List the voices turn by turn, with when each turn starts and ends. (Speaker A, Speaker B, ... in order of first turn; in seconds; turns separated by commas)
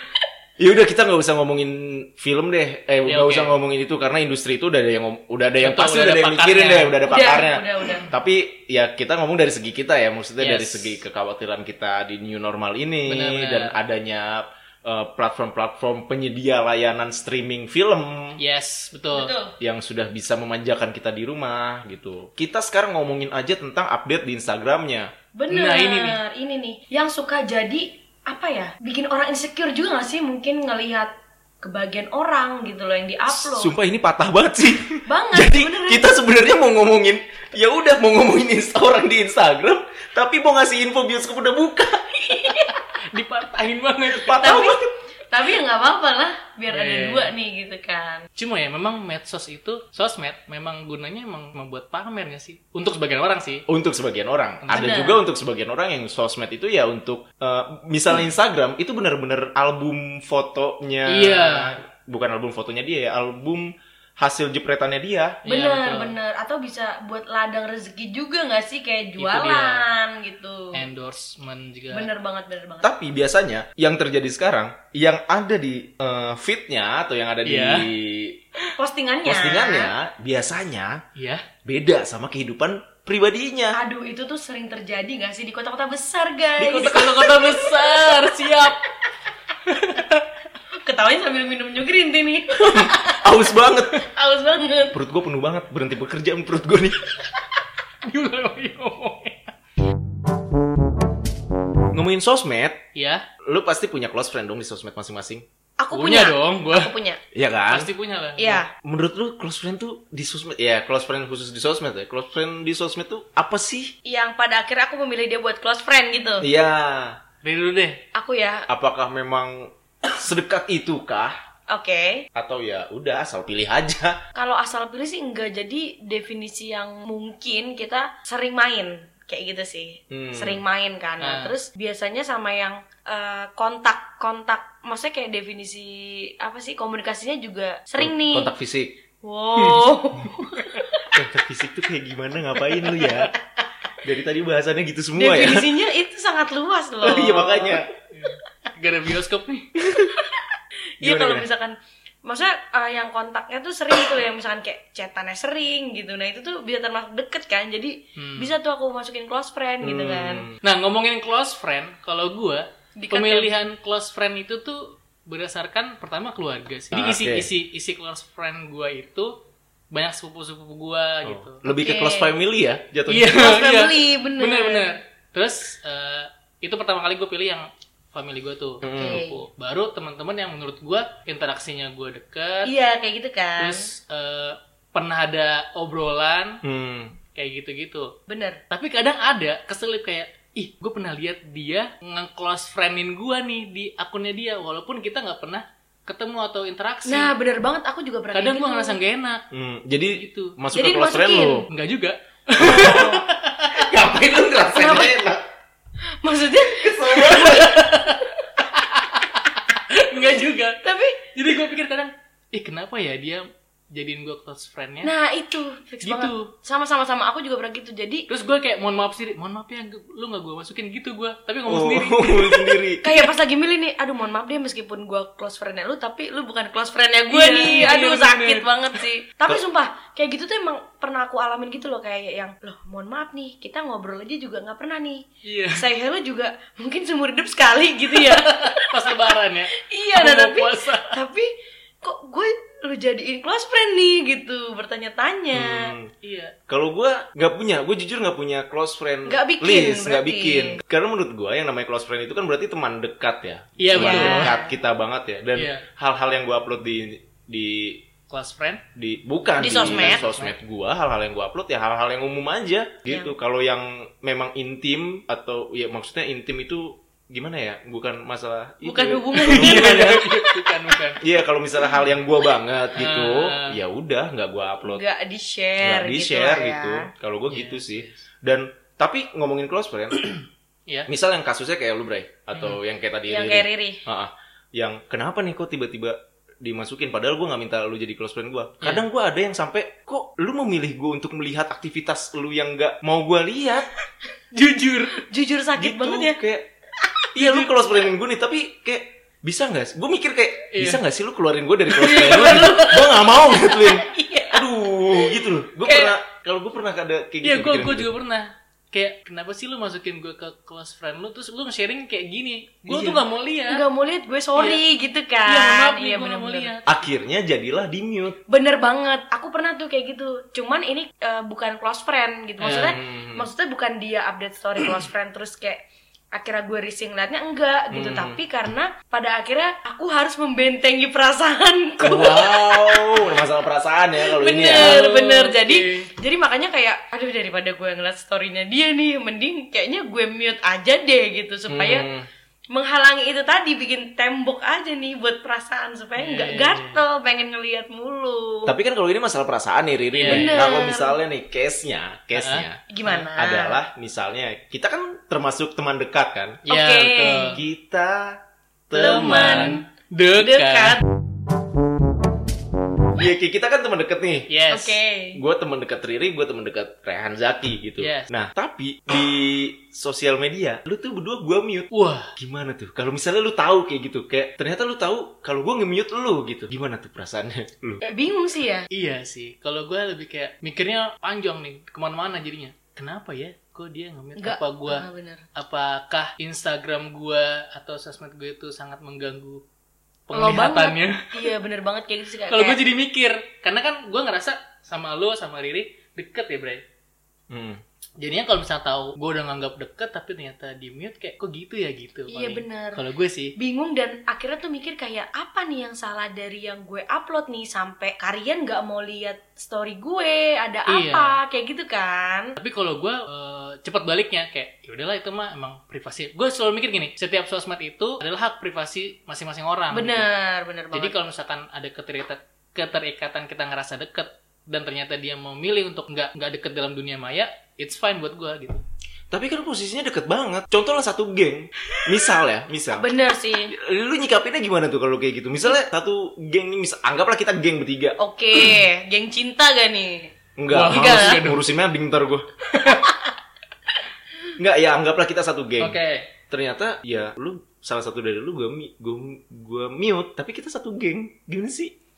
Speaker A: 0.6-18.4, Speaker B: 3.1-3.6, Speaker B: 5.6-7.0, Speaker C: 7.0-8.1, Speaker B: 10.4-10.9, Speaker B: 13.1-13.7, Speaker B: 18.4-19.3, Speaker C: 19.1-19.6, Speaker A: 19.6-25.1, Speaker C: 25.4-31.1, Speaker B: 25.5-26.2, Speaker C: 31.6-33.7, Speaker A: 33.3-42.5, Speaker C: 35.1-36.0, Speaker C: 42.3-42.7, Speaker B: 42.5-44.4, Speaker A: 44.1-44.8, Speaker C: 44.2-48.3, Speaker B: 46.7-47.3, Speaker B: 48.4-53.6, Speaker A: 53.7-65.4, Speaker B: 54.6-55.1, Speaker C: 54.7-55.2, Speaker B: 61.1-61.8, Speaker C: 65.5-70.8, Speaker B: 65.5-66.2, Speaker B: 69.2-69.9, Speaker B: 70.7-72.1, Speaker C: 71.9-72.9, Speaker A: 72.8-78.4, Speaker B: 77.5-77.9, Speaker C: 78.8-79.9, Speaker A: 79.2-81.0, Speaker B: 81.2-81.4, Speaker A: 81.7-83.8, Speaker C: 83.8-88.1, Speaker B: 86.6-88.9, Speaker A: 86.7-87.3, Speaker B: 89.7-90.3, Speaker C: 90.8-95.0, Speaker A: 92.6-94.0, Speaker A: 94.9-97.1, Speaker B: 98.0-99.5, Speaker A: 101.9-102.8, Speaker B: 103.0-103.2, Speaker A: 103.5-105.5, Speaker C: 105.8-107.2, Speaker B: 105.9-106.9, Speaker A: 107.3-107.9, Speaker B: 107.7-108.6, Speaker C: 108.4-108.7, Speaker A: 108.8-113.9, Speaker C: 114.0-116.5, Speaker A: 116.4-117.2, Speaker B: 117.4-118.0, Speaker C: 118.2-118.7, Speaker A: 118.7-121.3, Speaker C: 121.7-122.3, Speaker A: 122.3-124.2, Speaker C: 124.3-138.5, Speaker A: 130.1-130.6, Speaker B: 131.2-131.6, Speaker A: 138.0-138.9, Speaker C: 139.2-141.1, Speaker A: 141.1-143.3, Speaker A: 144.0-145.7, Speaker C: 145.2-147.8, Speaker A: 147.0-147.9, Speaker B: 148.1-149.7, Speaker C: 150.0-150.4, Speaker C: 151.0-160.5, Speaker A: 151.0-151.5, Speaker B: 158.2-158.5, Speaker A: 159.8-160.6, Speaker B: 160.6-169.3, Speaker C: 163.0-163.5, Speaker A: 166.9-167.5, Speaker B: 169.9-171.6, Speaker A: 171.2-173.3, Speaker C: 171.7-172.4, Speaker B: 173.1-182.7, Speaker C: 173.3-174.9, Speaker A: 178.8-179.2, Speaker C: 178.9-179.4, Speaker C: 182.7-183.9, Speaker B: 183.6-186.6, Speaker A: 186.6-187.2, Speaker B: 187.3-188.1, Speaker C: 188.3-188.6, Speaker B: 188.7-197.3, Speaker C: 197.1-199.0, Speaker B: 198.3-199.4, Speaker A: 199.5-201.7, Speaker B: 200.1-200.6, Speaker C: 200.7-201.7, Speaker B: 201.7-203.9, Speaker A: 202.6-203.1, Speaker C: 202.6-203.2, Speaker A: 203.7-205.4, Speaker C: 204.7-205.2, Speaker C: 206.2-207.9, Speaker A: 206.7-207.7, Speaker B: 207.3-215.1, Speaker C: 210.8-211.3, Speaker C: 215.0-218.3, Speaker B: 216.0-216.5, Speaker B: 218.3-222.7, Speaker A: 221.7-223.2, Speaker C: 223.0-241.5, Speaker B: 227.3-229.1, Speaker B: 235.4-235.9, Speaker B: 238.1-241.2, Speaker C: 242.0-245.9, Speaker A: 245.5-246.1, Speaker B: 246.2-246.5, Speaker A: 246.7-258.0, Speaker C: 249.3-250.8, Speaker B: 253.8-254.6, Speaker C: 253.9-254.8, Speaker B: 255.6-255.8, Speaker B: 258.3-258.8, Speaker A: 258.9-270.2, Speaker C: 259.6-260.4, Speaker B: 259.7-260.6, Speaker C: 263.1-263.3, Speaker C: 268.8-270.7, Speaker B: 269.4-271.2, Speaker A: 271.2-275.0, Speaker B: 272.9-273.8, Speaker C: 274.8-277.1, Speaker A: 275.8-280.3, Speaker B: 277.5-278.2, Speaker A: 281.1-293.9, Speaker C: 283.3-284.0, Speaker B: 294.5-295.2, Speaker C: 295.3-296.4, Speaker A: 295.8-296.7, Speaker A: 297.4-308.1, Speaker B: 300.7-301.0, Speaker B: 301.9-302.9, Speaker C: 302.4-306.2, Speaker B: 307.4-313.8, Speaker A: 312.9-313.2, Speaker C: 313.7-316.7, Speaker B: 314.6-314.8, Speaker B: 315.5-317.0, Speaker A: 316.9-318.4, Speaker C: 318.5-325.8, Speaker B: 322.6-323.0, Speaker A: 322.6-323.5, Speaker C: 326.3-333.4, Speaker A: 327.9-328.4, Speaker A: 332.0-335.1, Speaker C: 334.2-342.1, Speaker B: 334.6-336.1, Speaker A: 341.7-342.3, Speaker C: 342.7-348.7, Speaker B: 346.2-347.0, Speaker A: 348.7-352.8, Speaker B: 350.1-350.5, Speaker C: 350.2-351.2, Speaker B: 352.3-353.3, Speaker C: 352.9-353.8, Speaker A: 353.4-356.7, Speaker B: 356.7-357.6, Speaker C: 356.7-357.6, Speaker A: 357.5-358.4, Speaker A: 358.9-359.8, Speaker B: 358.9-361.1, Speaker C: 358.9-359.8, Speaker C: 360.4-361.0, Speaker A: 363.1-364.5, Speaker B: 364.5-365.0, Speaker C: 364.7-365.4, Speaker A: 365.3-378.0, Speaker B: 368.0-368.3, Speaker B: 371.9-372.3, Speaker C: 378.0-378.9, Speaker B: 378.9-389.6, Speaker C: 384.4-385.4, Speaker B: 390.3-391.5, Speaker C: 390.3-392.8, Speaker B: 392.4-396.8, Speaker A: 397.5-397.8, Speaker B: 398.2-403.6, Speaker C: 402.3-403.0, Speaker C: 403.6-412.5, Speaker B: 410.9-411.4, Speaker B: 412.6-420.3, Speaker C: 419.9-421.1, Speaker B: 420.9-428.8, Speaker A: 429.3-433.1, Speaker C: 432.9-433.7, Speaker A: 433.8-438.2, Speaker C: 438.2-440.3, Speaker A: 440.6-442.5, Speaker B: 440.7-441.7, Speaker C: 440.9-441.4, Speaker B: 442.7-443.0, Speaker C: 442.9-443.1, Speaker A: 444.6-446.0, Speaker B: 445.8-446.3, Speaker A: 446.5-451.9